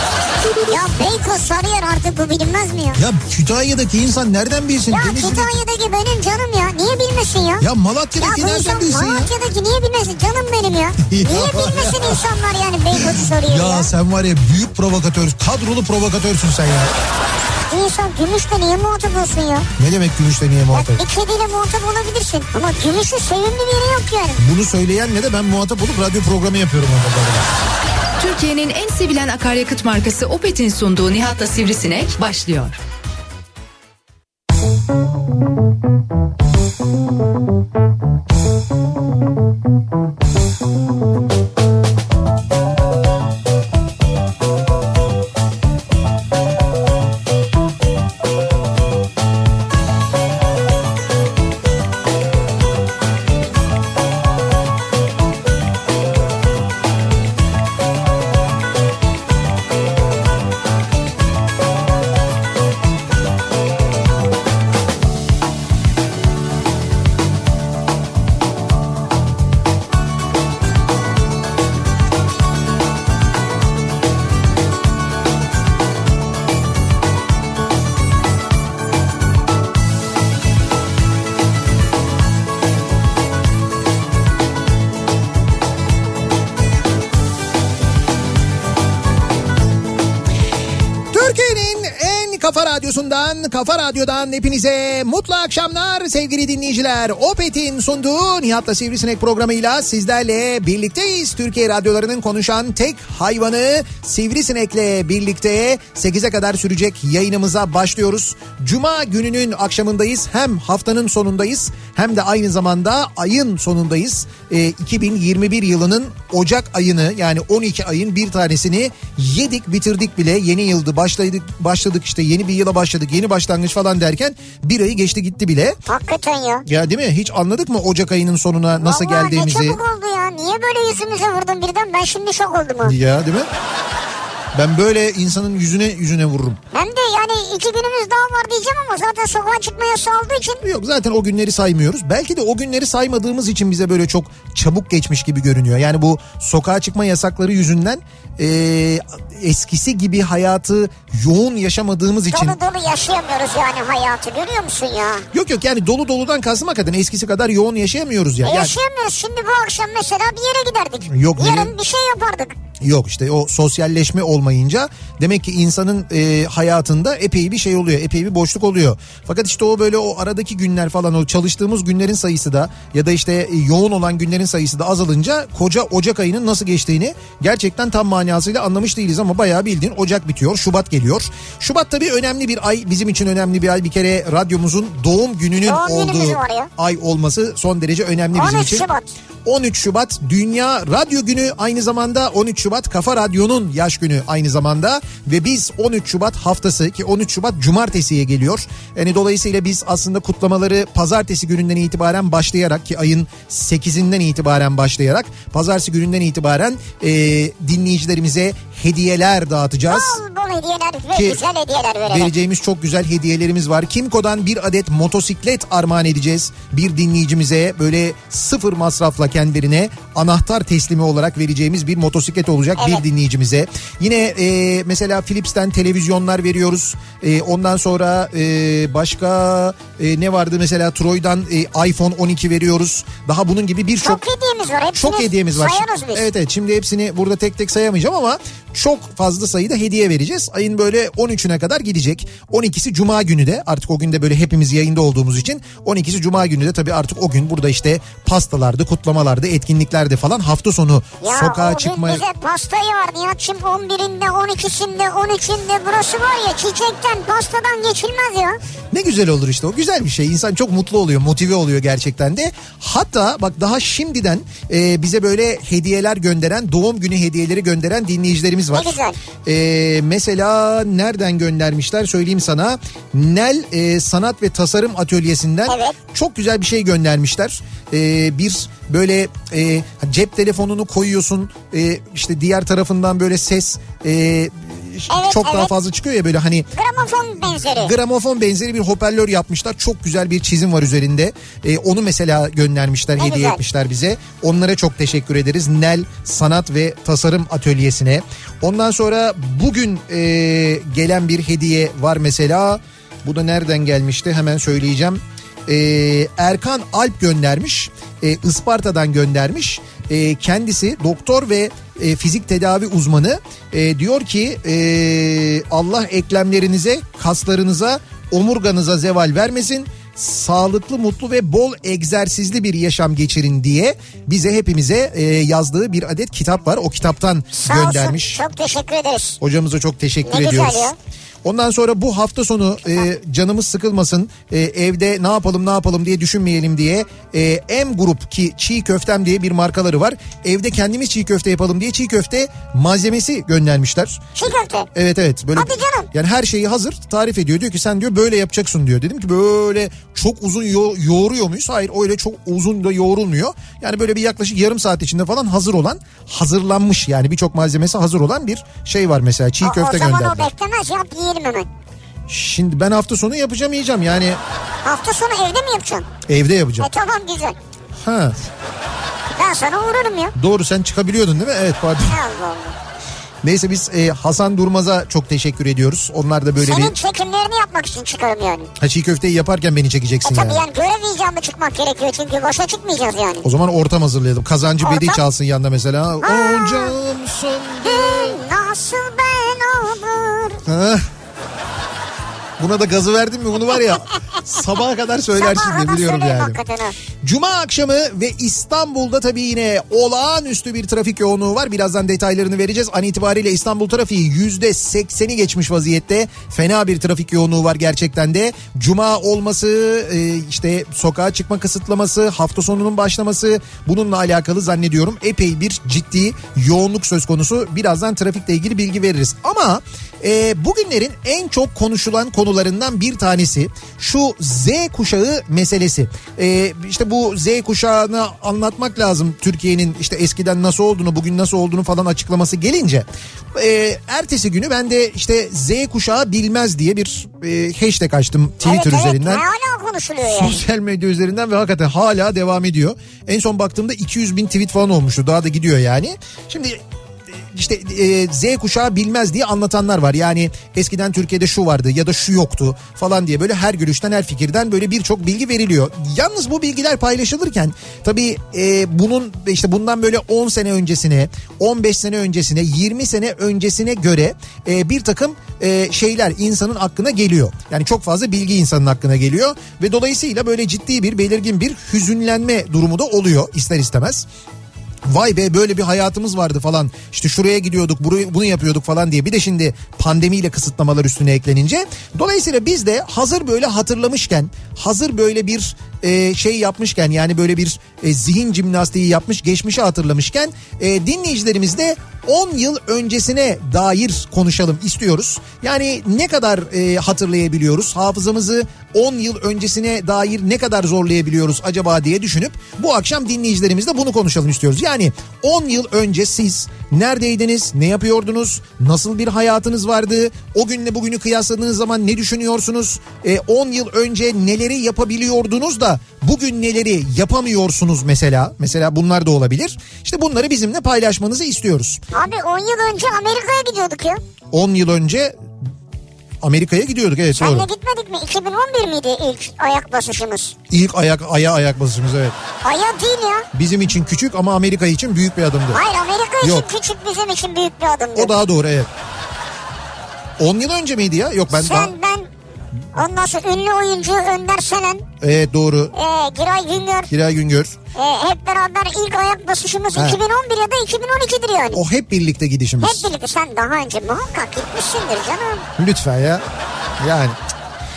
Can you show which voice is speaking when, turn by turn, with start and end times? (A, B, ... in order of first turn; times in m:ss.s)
0:00.6-0:03.0 A
0:02.9-0:05.6 B
0:04.9-0:07.6 A
0:07.6-0:09.3 B
0:08.2-0:13.9 A
0:11.0-0:12.3 B
0:12.9-0:16.9 B
0:17.7-0:19.7 A
0:19.8-0:21.0 B
0:20.7-0:24.4 A
0:24.4-0:27.5 B
0:28.2-0:32.8 C
1:31.1-2:05.8 B
2:05.9-2:06.6 A
2:06.6-2:09.8 B
2:08.8-2:13.0 A
2:12.8-2:13.5 B
2:14.5-2:16.6 B
2:16.7-2:20.6 A
2:20.6-2:32.6 B
2:32.3-2:35.3 A
2:35.3-2:38.8 B
2:38.4-2:42.6 A
2:41.1-2:41.7 B
2:42.8-3:08.8 B
3:05.6-3:06.7 A
3:08.3-3:09.1 A
3:09.4-3:30.2 B
3:29.9-3:32.3 A
3:31.1-3:31.4 B
3:32.1-3:54.2 B
3:42.8-3:43.0 A
3:54.0-3:56.3 A
3:54.9-4:12.2 B
4:11.2-4:18.6 A
4:18.9-4:46.7 B
4:28.7-4:29.2 A
4:35.7-4:36.0 A
4:45.1-4:45.7 A
4:46.7-4:47.9 A
4:47.7-5:28.4 B
4:53.2-4:53.6 A
5:27.5-5:29.4 A
5:29.4-5:30.9 B
5:30.2-5:31.0 A
5:31.4-5:44.3 B
5:44.4-5:44.9 A
5:44.9-6:00.5 B
5:45.6-5:46.1 A
5:59.6-6:01.7 A
6:02.3-6:04.4 B
6:04.8-6:06.1 A
6:06.3-6:06.9 B
6:06.8-6:07.6 A
6:08.0-6:08.4 B
6:09.4-6:10.4 A
6:10.4-6:12.2 B
6:12.1-6:12.8 A
6:13.4-6:16.9 B
6:16.6-6:18.7 A
6:18.8-6:20.6 B
6:20.2-6:23.4 A
6:23.4-6:28.4 B
6:24.8-6:25.2 A
6:26.2-6:27.0 A
6:27.8-6:30.6 A
6:30.6-6:31.1 B
6:32.6-6:36.6 B
6:35.4-6:37.0 A
6:37.2-7:19.4 B
7:18.6-7:20.6 A
7:20.3-7:26.8 B
7:27.5-7:54.2 B
7:55.1-8:42.0 B
8:42.1-8:44.2 A
8:44.5-8:45.4 B
8:46.4-8:47.7 B
8:47.3-8:50.5 A
8:50.7-8:52.4 B
8:52.6-8:53.5 A
8:53.5-8:55.8 B
8:55.7-8:58.4 A
8:56.4-8:56.7 B
8:58.2-8:58.9 B
9:00.4-9:01.9 B
9:01.5-9:02.3 A
9:02.9-9:05.1 A
9:05.2-9:05.9 B
9:05.9-9:07.1 A
9:07.1-9:07.8 B
9:08.0-9:11.8 A
9:11.7-9:13.1 B
9:12.8-9:15.6 A
9:15.8-9:16.4 B
9:17.0-9:17.4 B